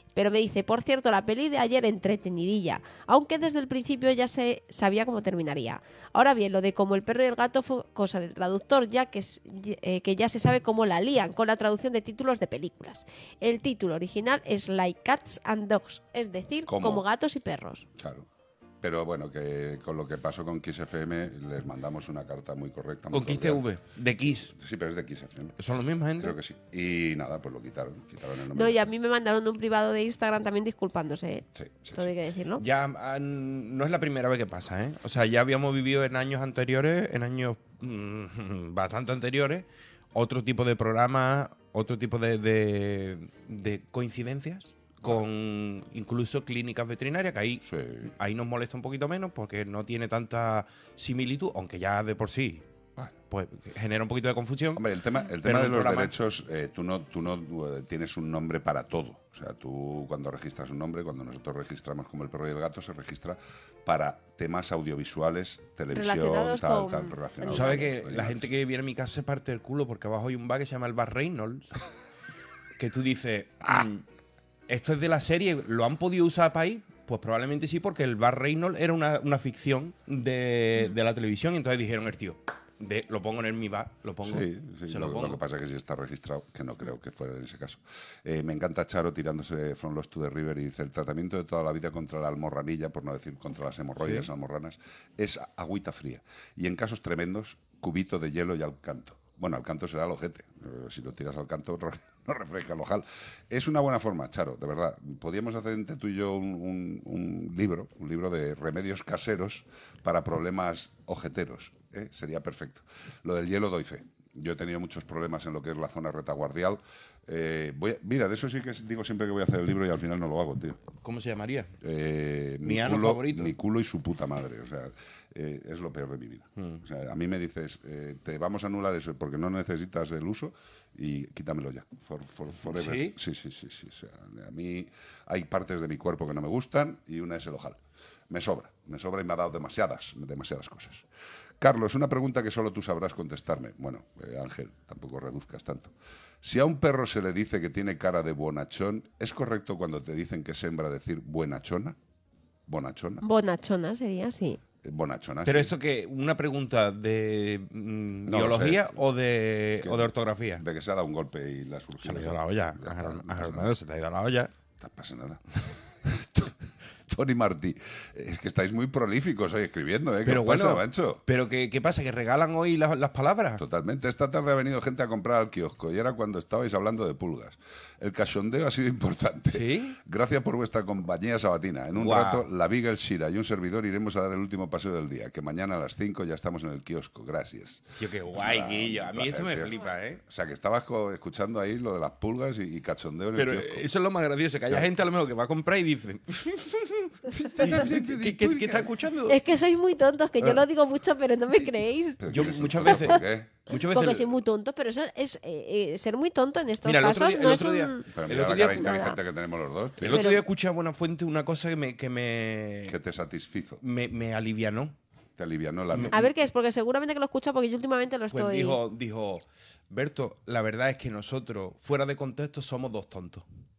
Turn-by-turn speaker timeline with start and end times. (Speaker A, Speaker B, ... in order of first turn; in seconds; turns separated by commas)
Speaker A: 0.1-17.9, Speaker B: 16.7-17.0, Speaker B: 17.9-18.3, Speaker B: 18.8-23.6, Speaker C: 23.1-24.5, Speaker B: 24.3-25.6, Speaker C: 25.6-26.4, Speaker B: 26.2-28.9, Speaker A: 28.5-32.6, Speaker B: 31.5-32.1, Speaker C: 32.6-52.6, Speaker B: 47.6-48.1, Speaker C: 53.3-54.8, Speaker B: 54.7-68.5, Speaker C: 55.4-56.1, Speaker A: 65.9-67.9, Speaker C: 67.4-71.7, Speaker C: 72.8-74.0, Speaker C: 74.7-85.4, Speaker B: 84.2-120.8, Speaker C: 94.0-94.3, Speaker C: 121.0-121.7, Speaker B: 121.8-141.1, Speaker C: 122.6-123.5, Speaker C: 126.6-126.8, Speaker C: 132.7-133.2, Speaker B: 141.6-152.0, Speaker B: 152.7-153.2, Speaker A: 153.2-154.6, Speaker B: 154.8-155.7, Speaker C: 155.4-160.6, Speaker B: 158.3-159.0, Speaker B: 159.8-163.8, Speaker C: 162.0-164.5, Speaker B: 164.8-171.2, Speaker C: 170.2-173.6, Speaker B: 173.6-193.9, Speaker C: 179.5-180.0, Speaker C: 181.9-182.5, Speaker C: 188.0-190.2, Speaker C: 193.3-199.4, Speaker B: 197.3-198.9, Speaker A: 199.3-203.2, Speaker B: 202.2-203.6, Speaker C: 202.3-204.3, Speaker A: 203.8-209.2, Speaker C: 206.8-209.1, Speaker B: 208.1-210.4, Speaker C: 210.0-212.9, Speaker A: 210.1-210.4, Speaker B: 212.9-213.8, Speaker C: 213.8-214.9, Speaker B: 215.4-216.2, Speaker C: 215.9-216.2, Speaker A: 216.1-218.8, Speaker C: 218.3-223.4